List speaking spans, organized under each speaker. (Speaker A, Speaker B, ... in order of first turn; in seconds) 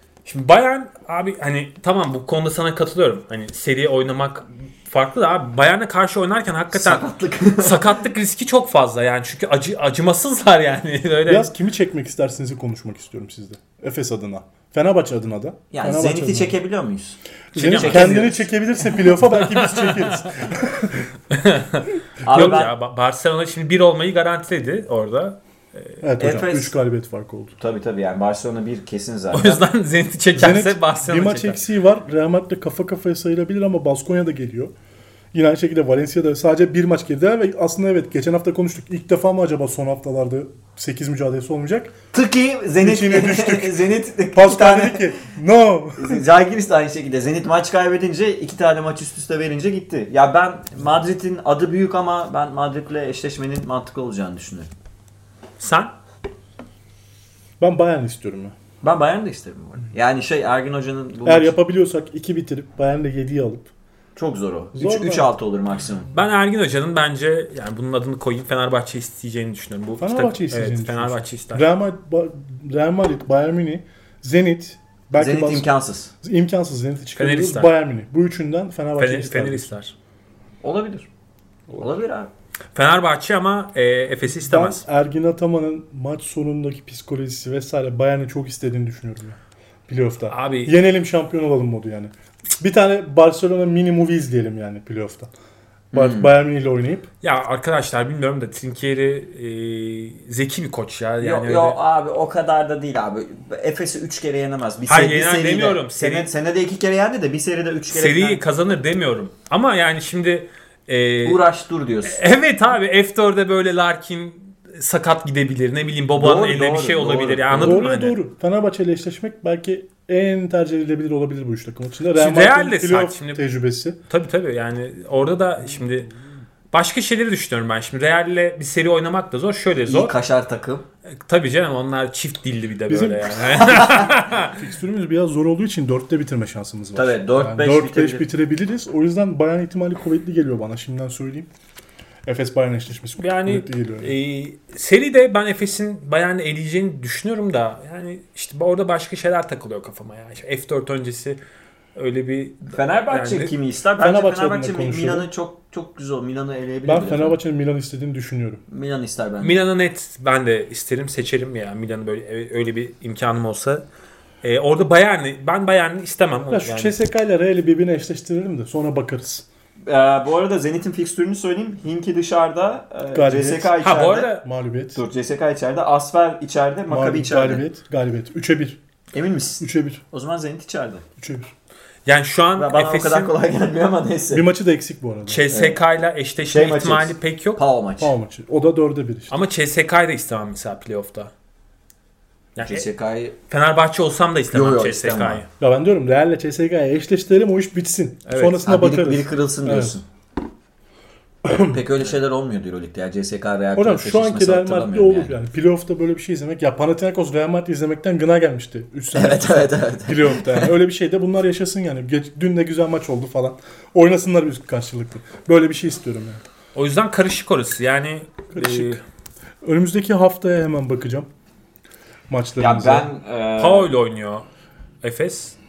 Speaker A: 0.3-7.1, 7.6-11.5, 17.5-18.4, 18.9-20.4, 21.3-26.0, 29.3-31.6, 55.6-55.9, 66.1-71.7, 77.2-77.7, 79.0-79.9, 82.8-84.8, 90.3-90.8, 97.2-101.8, 104.9-106.3, 107.9-111.4, 112.0-118.2, 122.2-123.4, 124.1-126.1, 126.7-130.1, 131.2-134.6, 143.2-151.4, 151.9-153.5, 159.4-163.8, 164.4-166.9, 173.8-174.4, 182.1-183.3, 185.3-187.6, 189.3-191.3, 192.6-192.8, 193.5-195.5, 198.3-198.6, 216.8-219.0, 223.6-224.5, 225.0-225.6
Speaker B: 6.7-8.0, 15.7-17.2, 17.7-18.4, 22.2-22.7, 26.2-26.7, 27.6-29.6, 42.1-45.1, 46.0-54.7, 58.8-61.6, 64.2-66.1, 75.2-76.1, 80.6-81.1, 81.8-82.3, 95.9-96.3, 101.2-108.4, 111.2-112.2, 116.2-117.8, 129.9-130.8, 133.7-134.0, 136.9-138.3, 152.7-157.4, 158.7-159.6, 169.9-174.3, 175.0-177.7, 179.1-181.0, 182.6-184.4, 185.5-185.8, 186.5-188.1, 192.6-193.4, 194.5-195.4, 198.6-200.1, 201.6-205.3, 209.1-210.7, 222.6-223.9
Speaker C: 11.3-16.6, 17.5-21.1, 26.0-27.6, 30.4-34.7, 35.3-41.9, 42.8-46.2, 57.6-58.5, 61.3-63.7, 64.8-65.3, 70.0-75.7, 76.2-79.7, 84.5-95.3, 95.9-97.1, 117.6-124.0, 132.9-141.5, 142.2-144.2, 154.0-155.3, 156.8-158.6, 166.5-169.4, 173.1-173.8, 174.4-175.0, 176.9-178.8, 179.6-180.0, 181.2-181.5, 184.3-185.5, 188.0-189.3, 195.6-200.0, 201.4-201.8, 203.8-216.4, 218.5-219.0, 219.6-221.3, 222.3-223.1